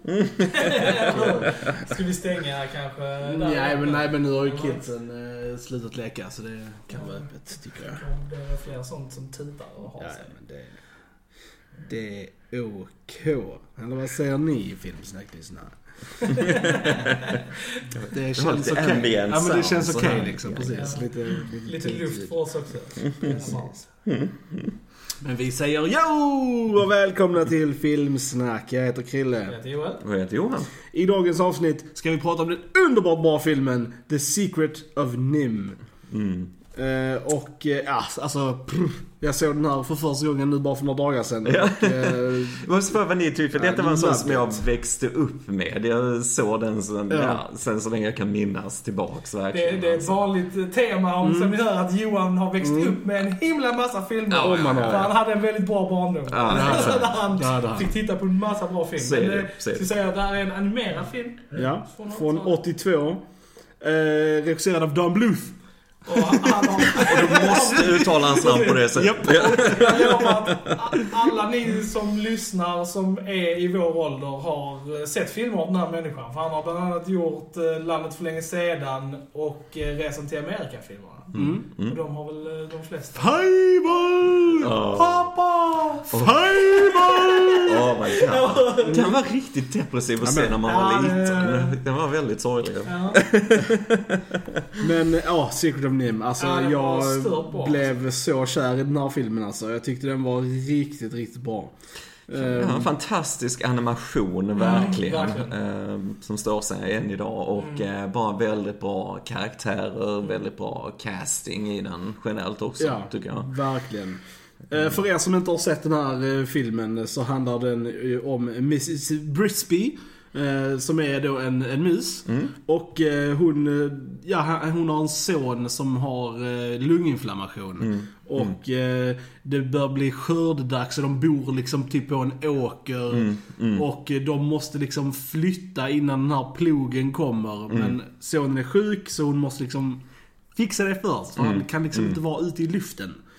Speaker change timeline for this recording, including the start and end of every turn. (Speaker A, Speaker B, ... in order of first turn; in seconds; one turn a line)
Speaker A: 0.2-1.3
Speaker B: 0.5-4.8
Speaker C: 3.2-8.0
Speaker B: 6.9-10.3
Speaker C: 10.0-10.8
Speaker C: 11.8-16.2
Speaker B: 16.3-17.2
Speaker C: 18.0-22.5
Speaker A: 18.3-21.4
Speaker B: 20.7-21.1
Speaker B: 21.6-23.9
Speaker A: 23.1-24.8
Speaker C: 23.2-23.7
Speaker C: 25.2-29.6
Speaker B: 29.4-30.0
Speaker A: 30.0-30.7
Speaker C: 30.8-35.8
Speaker A: 36.1-36.5
Speaker C: 36.7-42.6
Speaker A: 41.4-50.3
Speaker C: 43.5-44.7
Speaker C: 47.1-47.4
Speaker B: 49.5-62.6
Speaker C: 51.2-51.6
Speaker C: 52.6-53.0
Speaker A: 54.3-55.1
Speaker C: 54.4-55.2
Speaker A: 56.3-57.2
Speaker C: 56.5-57.9
Speaker A: 59.0-59.9
Speaker C: 61.5-63.2
Speaker C: 63.8-68.3
Speaker B: 66.0-83.5
Speaker A: 67.2-70.5
Speaker C: 68.9-70.1
Speaker A: 81.3-82.0
Speaker C: 81.3-81.7
Speaker C: 83.1-87.9
Speaker A: 84.6-85.3
Speaker A: 86.1-86.4
Speaker B: 86.6-89.1
Speaker A: 87.7-94.2
Speaker C: 88.8-89.1
Speaker C: 90.2-90.6
Speaker B: 90.6-91.8
Speaker B: 92.8-93.2
Speaker C: 94.8-101.7
Speaker B: 96.4-97.9
Speaker C: 102.3-102.9
Speaker A: 102.4-113.5
Speaker B: 104.6-105.5
Speaker B: 107.6-107.8
Speaker C: 112.8-143.2
Speaker A: 127.8-128.6
Speaker A: 133.1-133.8
Speaker A: 137.7-138.0
Speaker A: 141.3-142.2